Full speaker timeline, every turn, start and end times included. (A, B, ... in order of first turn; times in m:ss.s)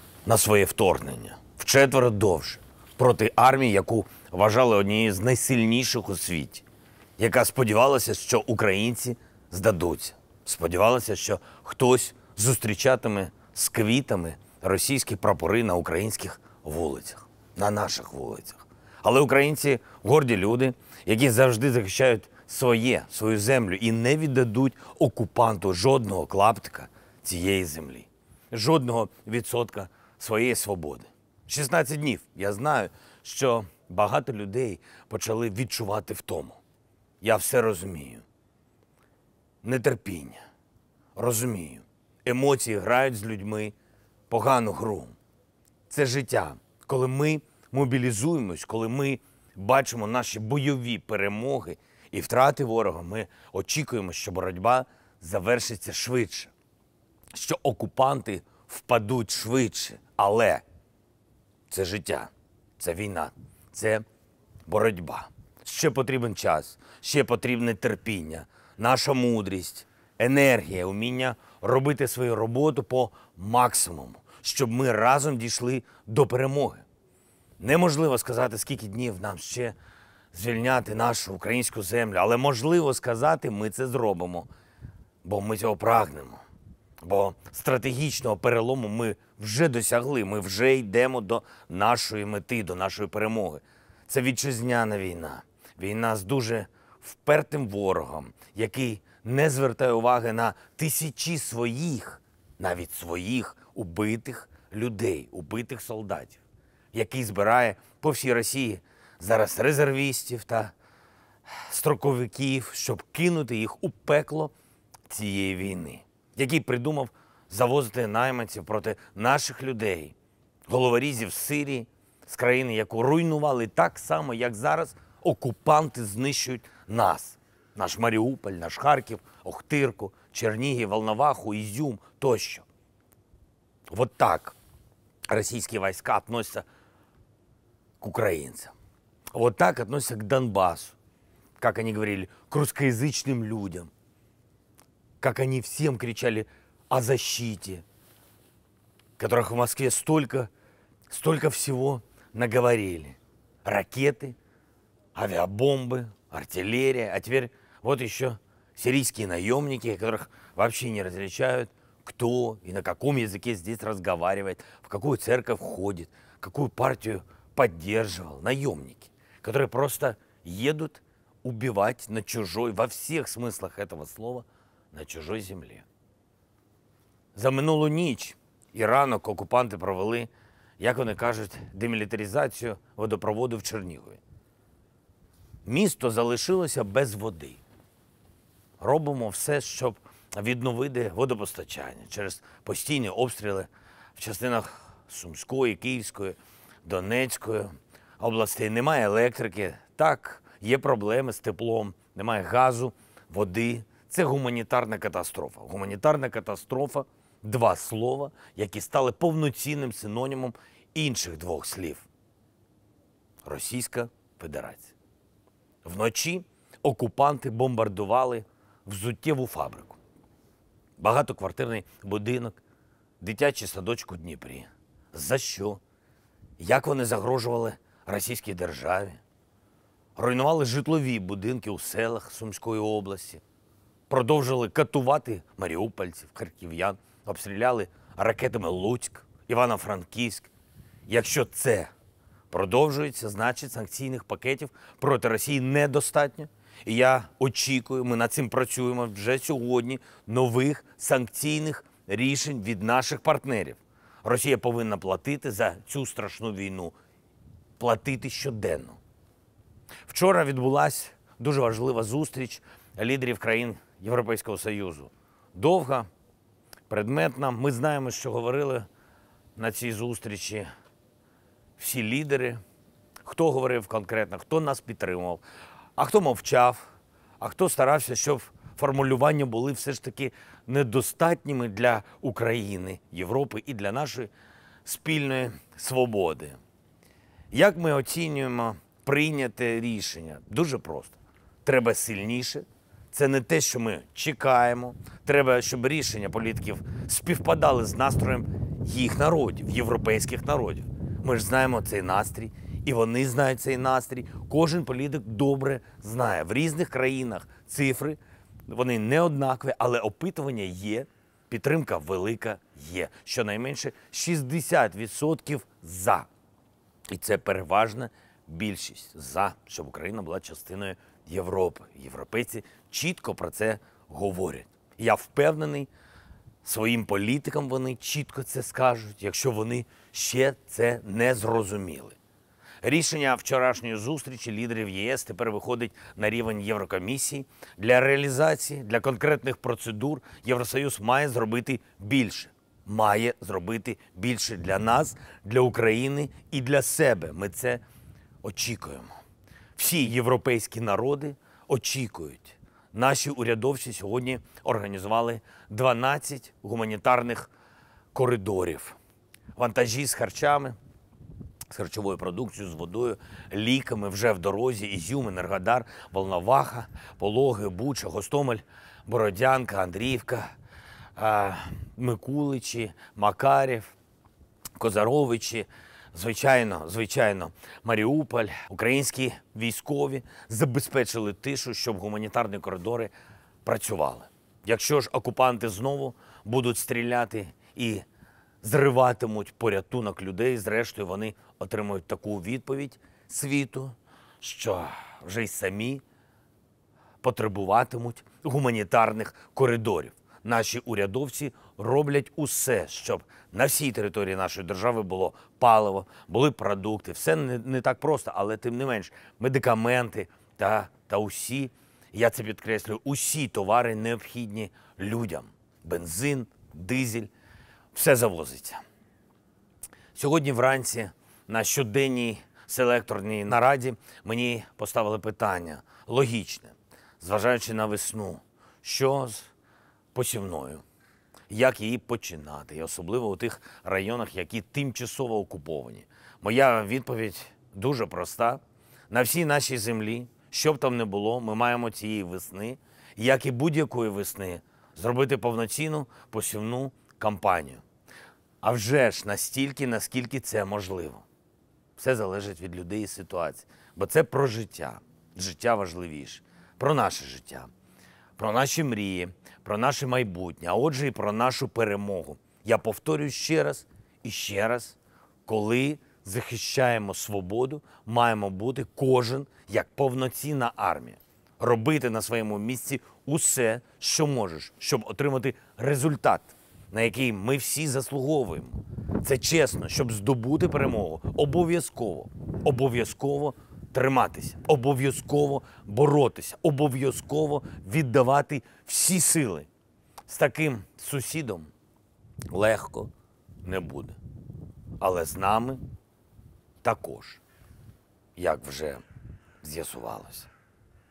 0:00.2-0:06.6 A
0:07.2-0:36.6 A
0:37.2-0:38.2 A
0:39.6-0:40.4 A
0:41.2-0:43.8 A
0:44.3-0:45.2 A
0:45.9-0:56.5 A
0:57.3-1:00.6 A
1:01.7-1:04.0 A
1:04.7-1:16.9 A
1:17.6-1:19.8 A
1:20.3-1:24.5 A
1:25.2-1:26.4 A
1:27.0-1:46.4 A
1:46.9-1:50.7 A
1:51.5-1:54.5 A
1:55.1-2:00.2 A
2:00.7-2:12.6 A
2:13.9-2:14.6 A
2:15.3-2:16.6 A
2:18.0-2:18.7 A
2:19.3-2:21.0 A
2:21.6-2:23.9 A
2:25.2-2:27.8 A
2:29.2-2:30.5 A
2:31.1-2:34.4 A
2:35.2-2:55.9 A
2:57.4-3:04.2 A
3:05.6-3:07.6 A
3:08.8-3:32.1 A
3:33.4-3:35.0 A
3:35.8-3:40.0 A
3:41.0-3:42.6 A
3:43.2-3:45.8 A
3:46.6-3:49.2 A
3:50.2-3:53.4 A
3:54.1-4:00.5 A
4:01.1-4:01.9 A
4:02.5-4:17.0 A
4:17.8-4:19.0 A
4:20.1-4:26.1 A
4:26.9-4:28.9 A
4:29.6-4:30.7 A
4:31.8-4:32.6 A
4:33.2-4:35.4 A
4:36.0-4:44.3 A
4:44.8-4:46.6 A
4:47.5-5:16.3 A
5:17.1-5:25.9 A
5:26.6-5:32.2 A
5:32.8-5:47.8 A
5:48.4-5:49.1 A
5:49.8-5:57.5 A
5:58.1-5:59.0 A
5:59.6-6:00.8 A
6:01.7-6:10.5 A
6:11.2-6:13.9 A
6:14.8-6:23.1 A
6:23.6-6:28.0 A
6:28.6-6:36.0 A
6:37.2-6:57.3 A
6:57.9-6:58.8 A
7:00.2-7:09.5 A
7:10.1-7:10.8 A
7:11.5-7:27.8 A
7:28.6-7:31.2 A
7:32.0-7:37.7 A
7:38.4-8:09.7 A
8:10.3-8:11.7 A
8:12.5-8:13.1 A
8:13.6-8:14.2 A
8:15.0-8:15.8 A
8:16.8-8:17.4 A
8:18.4-8:19.0 A
8:19.6-8:20.5 A